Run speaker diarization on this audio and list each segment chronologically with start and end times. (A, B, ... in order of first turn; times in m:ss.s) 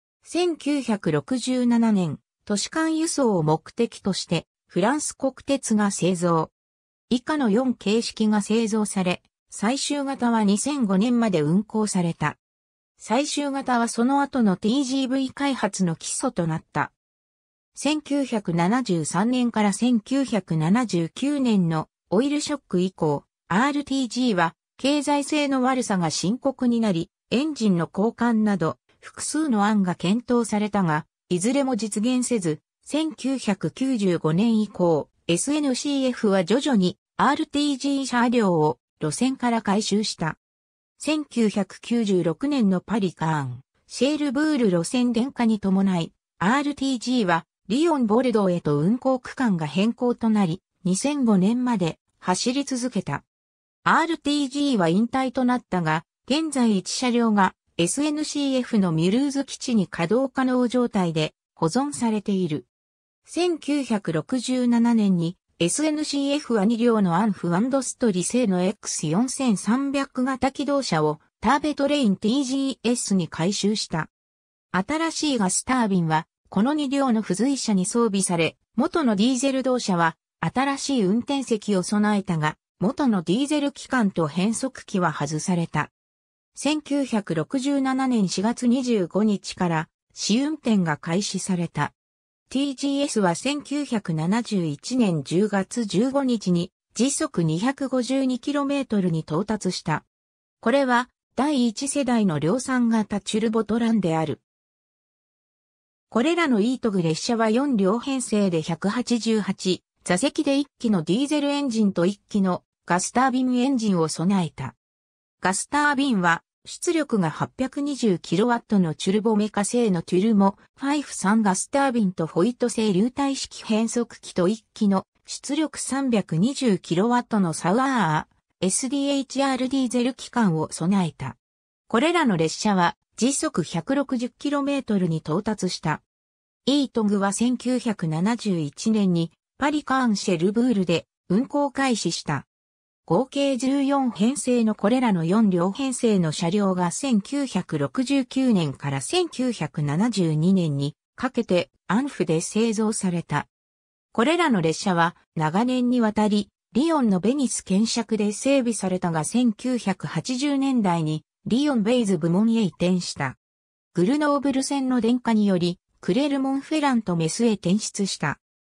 0:00.2-0:06.5 A
0:07.1-0:12.4 A
0:13.0-0:16.9 A
0:17.7-0:40.4 A
0:41.0-0:53.2 A
0:53.8-1:02.7 A
1:03.2-1:14.1 A
1:14.7-1:25.9 A
1:26.5-1:31.9 A
1:32.5-1:40.0 A
1:40.6-1:44.4 A
1:46.1-1:54.8 A
1:55.4-2:11.4 A
2:11.9-2:16.0 A
2:16.6-2:22.4 A
2:23.0-2:33.5 A
2:34.1-2:43.4 A
2:43.9-2:48.4 A